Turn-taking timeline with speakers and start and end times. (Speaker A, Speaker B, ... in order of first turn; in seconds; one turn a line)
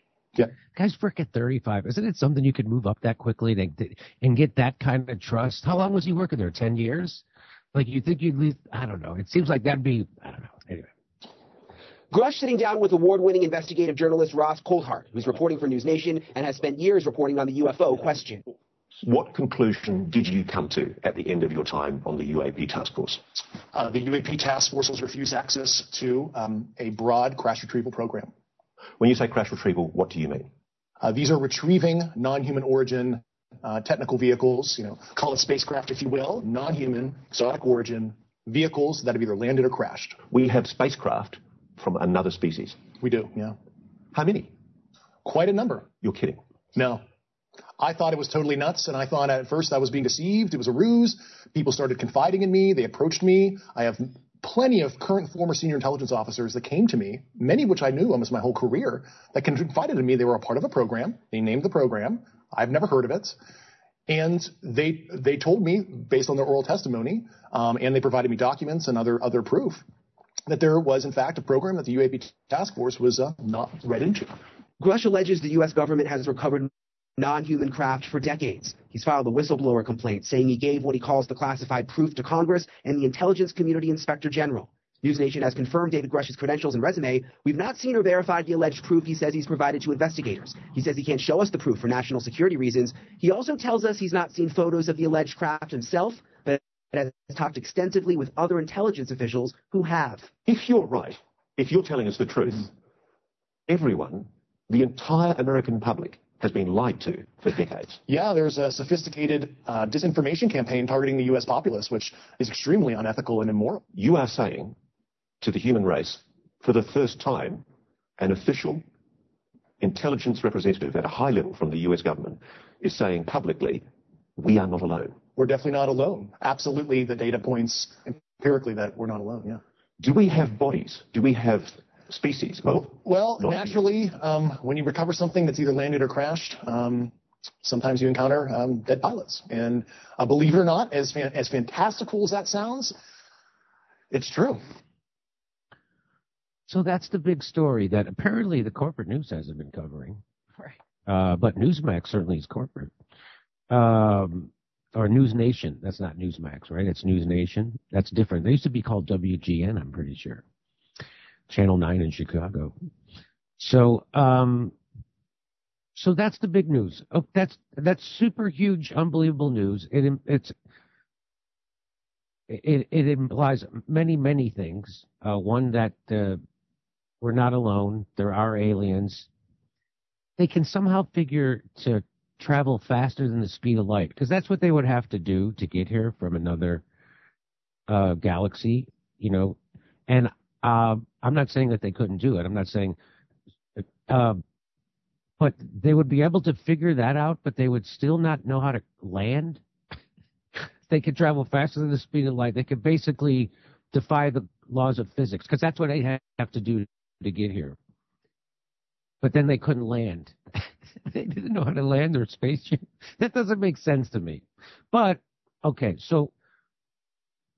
Speaker A: 0.7-7.2
Speaker A: 7.7-10.9
Speaker B: 12.1-18.4
Speaker C: 19.0-23.2
Speaker D: 23.7-28.3
Speaker C: 29.0-30.5
Speaker D: 31.0-40.2
Speaker C: 40.3-42.9
Speaker D: 43.0-43.5
Speaker C: 44.1-44.5
Speaker D: 45.2-45.9
Speaker C: 46.0-46.4
Speaker D: 46.7-47.0
Speaker D: 47.8-63.4
Speaker D: 64.1-69.8
Speaker D: 70.5-74.3
Speaker B: 74.8-100.3
Speaker C: 100.4-102.7
Speaker C: 103.7-108.0
Speaker D: 108.1-113.8
Speaker C: 113.9-114.7
Speaker C: 115.4-117.6
Speaker C: 118.2-118.8
Speaker C: 119.8-123.8
Speaker C: 124.4-125.2
Speaker D: 125.3-129.6
Speaker C: 130.0-133.8
Speaker D: 132.8-143.0
Speaker D: 144.1-144.6
Speaker A: 146.7-150.2
Speaker A: 151.1-152.9
Speaker A: 153.7-160.4
Speaker A: 161.5-162.7
Speaker A: 163.6-164.7
Speaker A: 165.9-170.5
Speaker A: 172.5-176.4
Speaker A: 177.2-179.3
Speaker A: 180.4-186.8
Speaker A: 187.9-192.9
Speaker A: 193.8-194.4
Speaker A: 195.4-199.6
Speaker A: 200.9-207.8
Speaker A: 209.2-210.3
Speaker A: 211.1-216.3